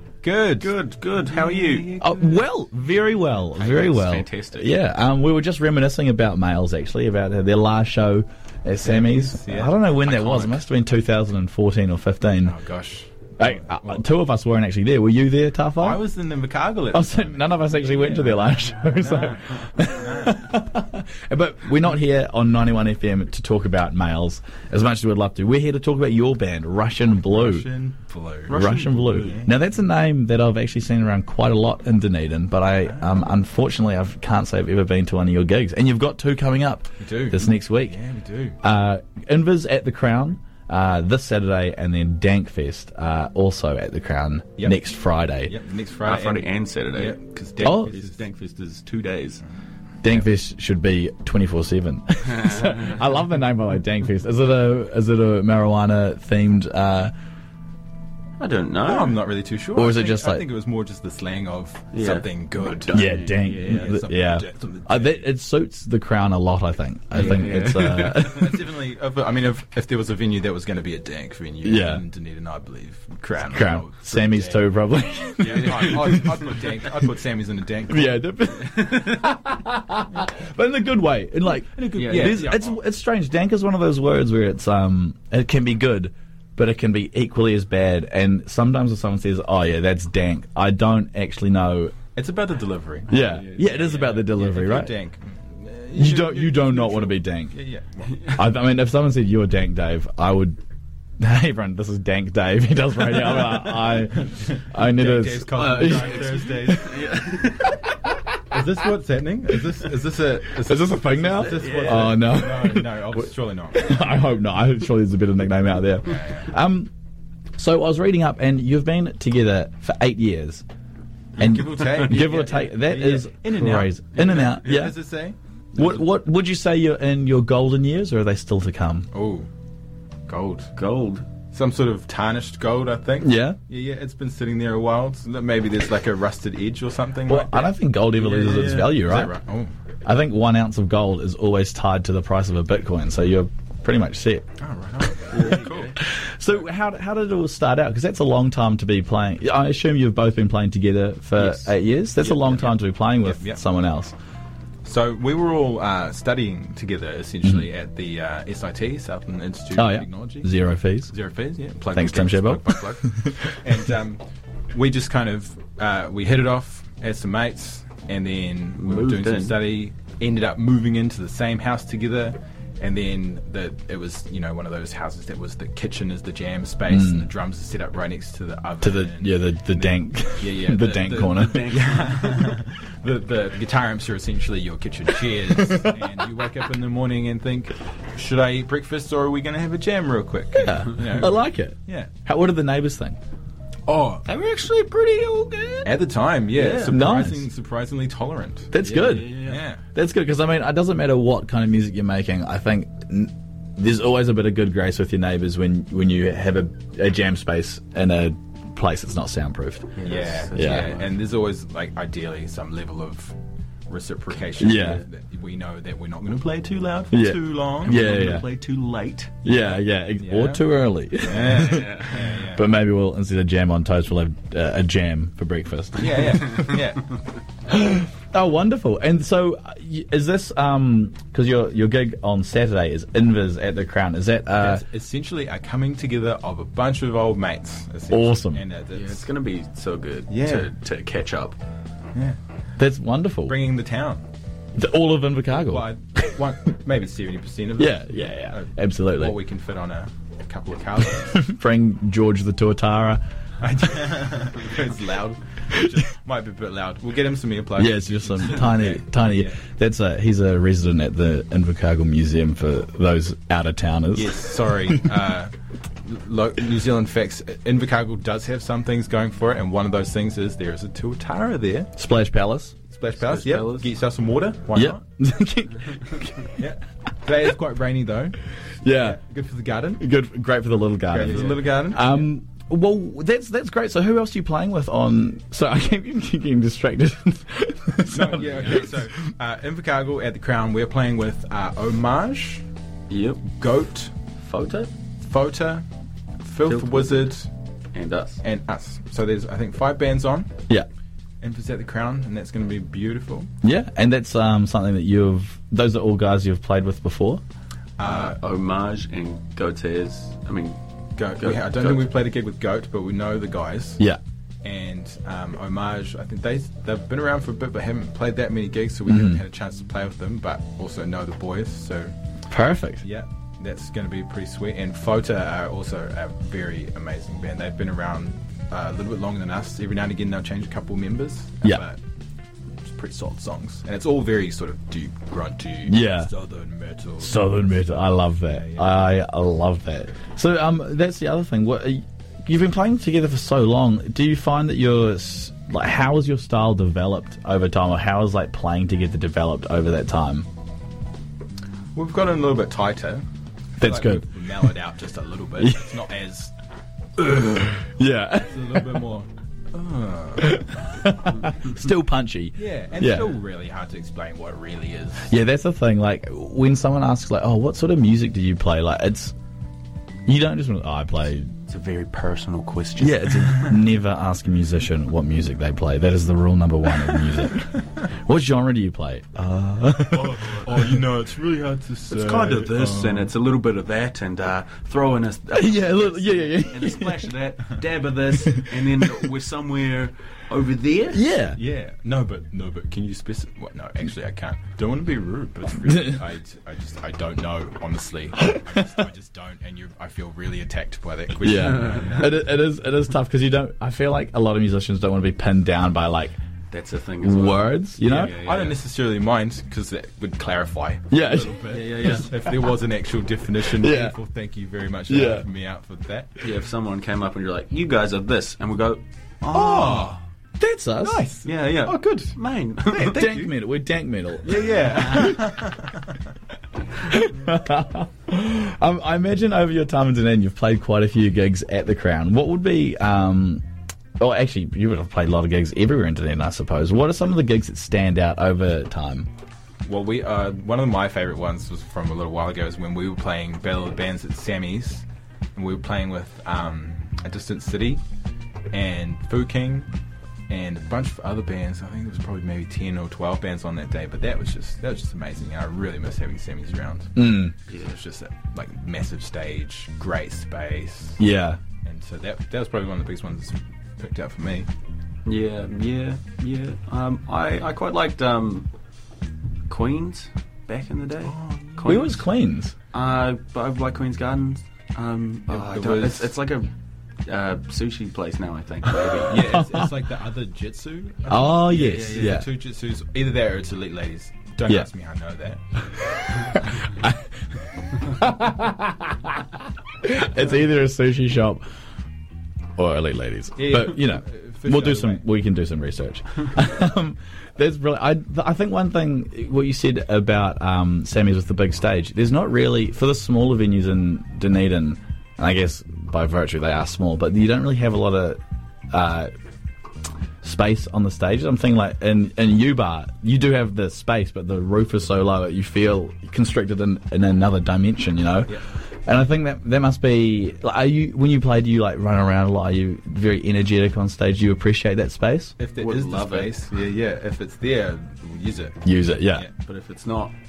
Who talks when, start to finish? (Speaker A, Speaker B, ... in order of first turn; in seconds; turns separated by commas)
Speaker A: 0.2-2.5, Speaker B: 0.6-1.9, Speaker C: 2.0-12.6, Speaker B: 3.5-4.7, Speaker A: 8.8-10.6, Speaker A: 12.4-14.1, Speaker C: 13.4-16.0, Speaker A: 15.8-20.6, Speaker C: 16.9-27.7, Speaker A: 27.2-28.6, Speaker B: 28.5-29.4, Speaker C: 28.5-38.0, Speaker A: 29.3-29.5, Speaker A: 32.8-33.2, Speaker A: 37.0-38.6, Speaker C: 38.6-45.5, Speaker A: 45.4-48.2, Speaker B: 46.0-49.4, Speaker C: 47.6-47.9, Speaker C: 50.0-57.1, Speaker B: 58.4-59.2, Speaker A: 58.8-63.0, Speaker C: 59.7-60.5, Speaker B: 61.9-62.3, Speaker B: 62.9-64.0, Speaker C: 62.9-68.5, Speaker A: 63.6-65.2, Speaker B: 67.1-68.4, Speaker A: 68.1-74.6, Speaker C: 71.6-72.0, Speaker C: 73.4-76.3, Speaker A: 75.4-78.2, Speaker B: 75.5-76.4, Speaker C: 77.9-92.0, Speaker A: 81.6-82.8, Speaker B: 82.0-82.4, Speaker A: 92.1-98.3, Speaker B: 93.1-93.9, Speaker C: 93.1-94.9, Speaker C: 95.9-97.5, Speaker C: 98.3-100.6, Speaker C: 101.2-106.9, Speaker A: 103.3-106.9, Speaker B: 105.7-107.8, Speaker A: 108.5-113.9, Speaker C: 110.6-116.9, Speaker B: 111.4-112.2, Speaker A: 116.0-116.5, Speaker C: 117.5-120.6, Speaker A: 121.4-126.0, Speaker C: 121.4-124.9, Speaker B: 121.8-122.5, Speaker C: 125.7-129.1, Speaker A: 129.1-129.5, Speaker A: 130.3-130.7, Speaker B: 130.7-131.3, Speaker A: 131.5-137.7, Speaker C: 133.2-133.6, Speaker C: 137.3-139.3, Speaker B: 138.1-139.0, Speaker A: 139.0-139.7, Speaker C: 140.0-144.4, Speaker A: 144.6-145.9, Speaker B: 145.3-146.0, Speaker C: 145.4-154.1, Speaker B: 151.4-152.4, Speaker A: 152.4-153.6, Speaker A: 154.8-160.5, Speaker C: 159.7-161.1, Speaker A: 161.1-192.1, Speaker C: 161.9-163.6, Speaker B: 168.8-169.6, Speaker C: 176.9-177.3, Speaker C: 178.8-181.7, Speaker B: 181.3-182.6, Speaker C: 185.6-185.9, Speaker C: 190.5-193.2, Speaker A: 193.8-194.2, Speaker B: 194.2-196.0, Speaker A: 195.8-198.8, Speaker B: 196.5-197.0, Speaker C: 196.9-197.5, Speaker C: 198.7-199.4, Speaker B: 198.8-199.6, Speaker A: 199.4-199.8, Speaker C: 199.9-209.9, Speaker B: 209.9-211.2, Speaker A: 210.0-213.3, Speaker C: 210.5-210.9, Speaker A: 213.9-218.0, Speaker C: 214.6-215.0, Speaker C: 217.1-218.5, Speaker B: 217.8-219.4, Speaker C: 219.4-226.6, Speaker A: 220.2-220.7, Speaker A: 221.2-222.6, Speaker B: 221.4-222.1, Speaker A: 226.0-227.2, Speaker C: 227.7-234.8, Speaker A: 234.6-239.3, Speaker C: 238.1-238.6, Speaker B: 238.9-241.6, Speaker A: 240.3-240.7, Speaker C: 242.8-243.6, Speaker A: 243.5-244.2, Speaker C: 244.8-245.9, Speaker A: 245.6-251.4, Speaker C: 247.8-249.3, Speaker C: 251.3-253.2, Speaker A: 253.6-259.6, Speaker C: 257.8-265.1, Speaker A: 264.1-265.5, Speaker A: 266.0-271.9, Speaker C: 272.0-272.7, Speaker A: 272.9-275.0, Speaker B: 273.2-273.9, Speaker C: 274.7-276.6, Speaker A: 276.6-280.0, Speaker C: 278.8-279.2, Speaker C: 280.0-289.1, Speaker A: 281.1-282.3, Speaker B: 281.2-281.7, Speaker A: 288.1-292.6, Speaker B: 293.1-293.5, Speaker A: 293.5-294.1, Speaker B: 294.4-294.9, Speaker A: 295.2-295.8, Speaker A: 296.4-297.5, Speaker B: 296.6-297.2, Speaker B: 297.9-298.4, Speaker A: 298.4-300.5, Speaker A: 301.4-303.5, Speaker C: 303.6-307.4, Speaker A: 308.0-308.4, Speaker B: 308.0-310.8, Speaker A: 311.1-314.0, Speaker B: 311.3-312.1, Speaker A: 314.6-322.1, Speaker C: 319.1-319.4, Speaker C: 322.5-323.0, Speaker A: 323.0-332.0, Speaker A: 332.8-339.0, Speaker C: 335.9-336.3, Speaker C: 337.2-350.5, Speaker A: 351.9-353.2, Speaker C: 353.8-354.3, Speaker A: 353.8-356.5, Speaker C: 355.6-356.0, Speaker C: 357.2-359.0, Speaker A: 358.4-360.6, Speaker C: 360.4-363.3, Speaker A: 362.6-365.3, Speaker C: 365.3-369.3, Speaker C: 370.2-371.5, Speaker B: 371.7-373.4, Speaker C: 373.0-380.4, Speaker A: 376.9-377.8, Speaker A: 380.1-383.3, Speaker B: 382.1-391.2, Speaker C: 385.5-387.3, Speaker C: 388.3-388.9, Speaker C: 391.1-391.6, Speaker A: 391.5-402.4, Speaker C: 401.4-406.4, Speaker B: 401.5-402.2, Speaker B: 406.7-408.8, Speaker C: 407.2-408.3, Speaker A: 408.4-416.4, Speaker C: 411.1-412.1, Speaker B: 411.6-412.3, Speaker C: 413.6-414.1, Speaker C: 415.1-415.4, Speaker B: 416.4-420.2, Speaker A: 419.5-420.2, Speaker C: 420.6-421.2, Speaker A: 421.0-422.4, Speaker B: 421.4-423.3, Speaker A: 422.9-423.5, Speaker C: 423.1-425.2, Speaker A: 424.4-426.1, Speaker C: 427.1-433.6, Speaker C: 434.2-439.3, Speaker A: 439.8-448.0, Speaker A: 448.7-449.9, Speaker A: 450.5-461.2, Speaker C: 457.1-457.5, Speaker B: 457.7-458.0, Speaker C: 461.2-461.6, Speaker A: 461.8-464.7, Speaker B: 465.2-468.7, Speaker B: 469.7-472.2, Speaker A: 471.2-472.1, Speaker C: 471.9-472.7, Speaker B: 472.9-476.7, Speaker A: 475.5-476.3, Speaker B: 477.2-479.5, Speaker A: 479.2-485.6, Speaker C: 479.6-479.9, Speaker C: 481.3-482.5, Speaker B: 481.8-482.4, Speaker C: 486.1-487.2, Speaker C: 488.1-489.4, Speaker C: 490.0-491.6, Speaker C: 492.8-508.4, Speaker A: 493.6-495.2, Speaker C: 508.9-509.3, Speaker C: 510.4-518.5, Speaker C: 519.0-525.5, Speaker A: 525.6-528.8, Speaker B: 525.7-526.5, Speaker C: 528.8-529.5, Speaker B: 529.6-530.3